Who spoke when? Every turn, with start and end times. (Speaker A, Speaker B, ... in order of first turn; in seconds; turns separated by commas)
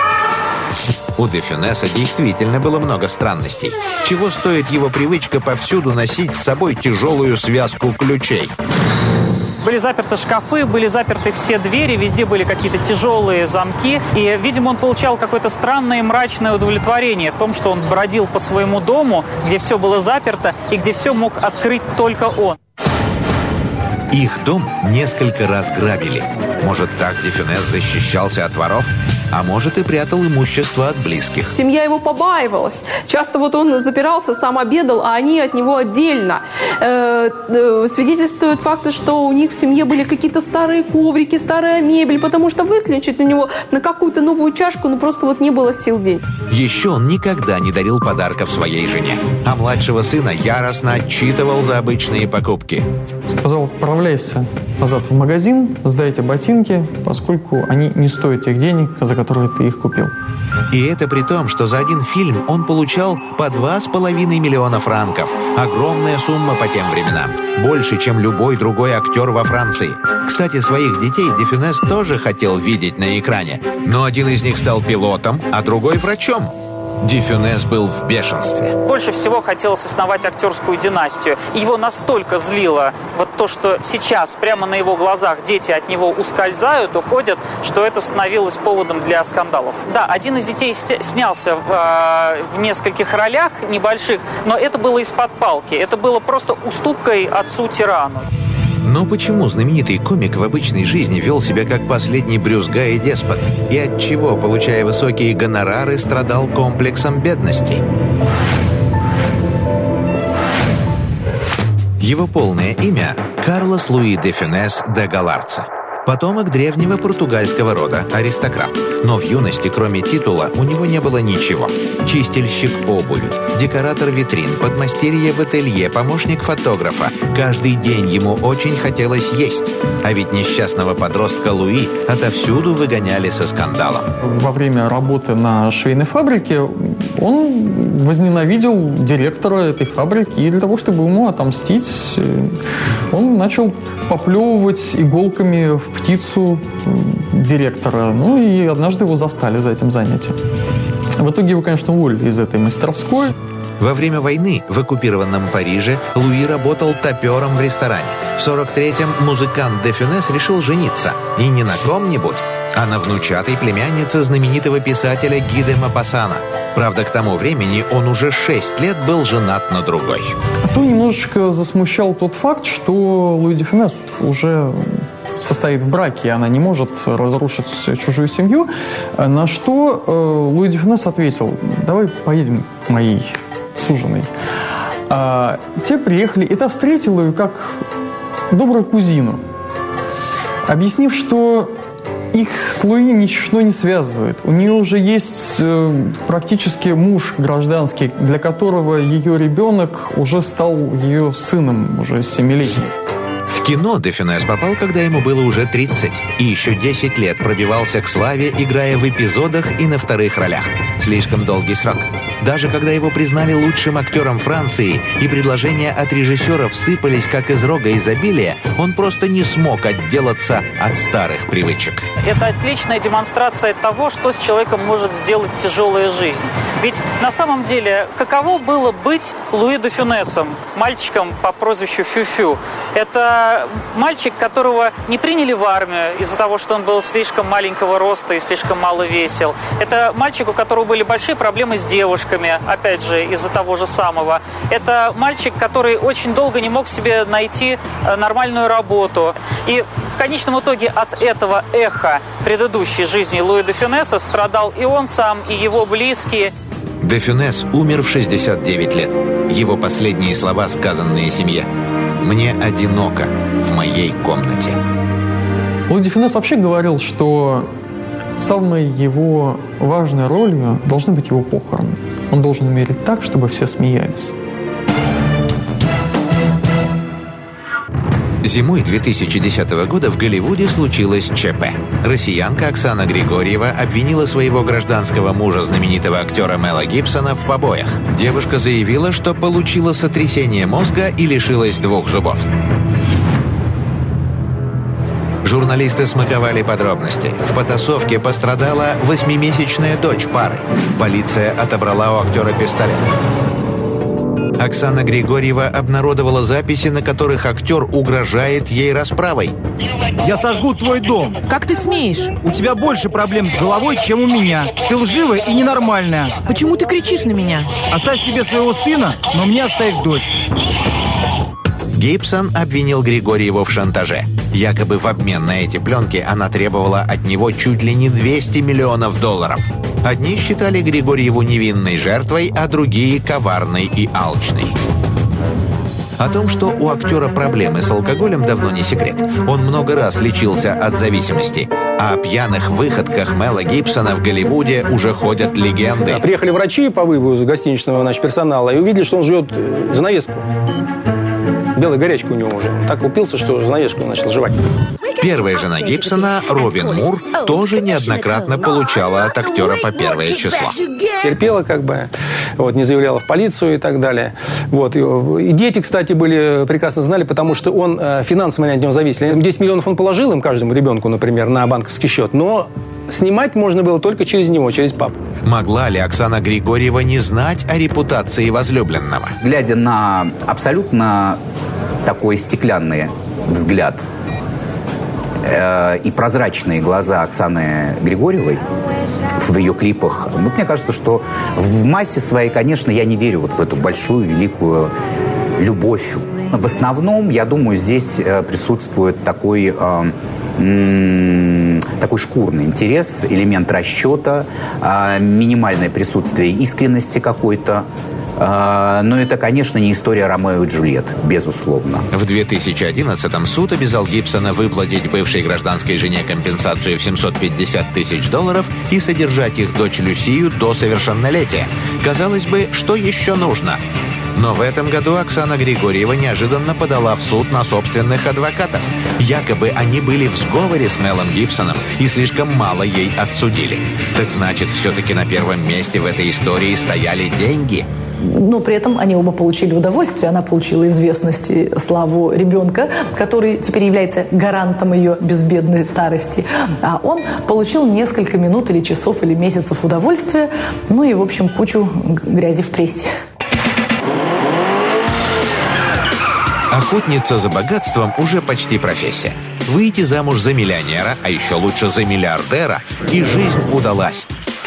Speaker A: 1.2-8.6, Speaker B: 9.6-22.6, Speaker A: 24.1-31.6, Speaker C: 31.5-46.2, Speaker A: 46.5-52.9, Speaker D: 53.3-60.1, Speaker A: 60.7-78.8, Speaker B: 78.8-98.3, Speaker A: 98.8-107.8, Speaker A: 112.0-134.1, Speaker D: 134.2-150.4, Speaker D: 151.2-153.3, Speaker A: 153.8-170.4, Speaker D: 170.7-184.3, Speaker D: 185.1-187.8, Speaker D: 188.5-189.4, Speaker D: 190.7-191.8, Speaker D: 192.3-202.9, Speaker A: 203.5-222.1, Speaker B: 222.2-256.5, Speaker A: 257.0-264.8, Speaker D: 265.9-267.7, Speaker D: 268.4-274.4, Speaker A: 278.4-292.5, Speaker A: 295.4-303.1, Speaker A: 304.6-309.6, Speaker E: 310.2-311.4, Speaker F: 311.5-312.4, Speaker E: 312.4-316.4, Speaker F: 316.4-317.8, Speaker E: 317.8-320.3, Speaker A: 321.9-334.8, Speaker A: 336.2-346.2, Speaker G: 346.1-350.5, Speaker G: 351.8-354.6, Speaker A: 355.1-360.8, Speaker G: 361.2-375.1, Speaker A: 375.4-379.4, Speaker H: 379.4-381.4, Speaker H: 382.0-384.1, Speaker H: 385.4-388.6, Speaker H: 389.3-394.9, Speaker H: 395.6-407.9, Speaker H: 408.4-412.1, Speaker A: 412.1-423.8, Speaker A: 424.3-437.9, Speaker I: 438.2-453.1, Speaker A: 456.7-464.3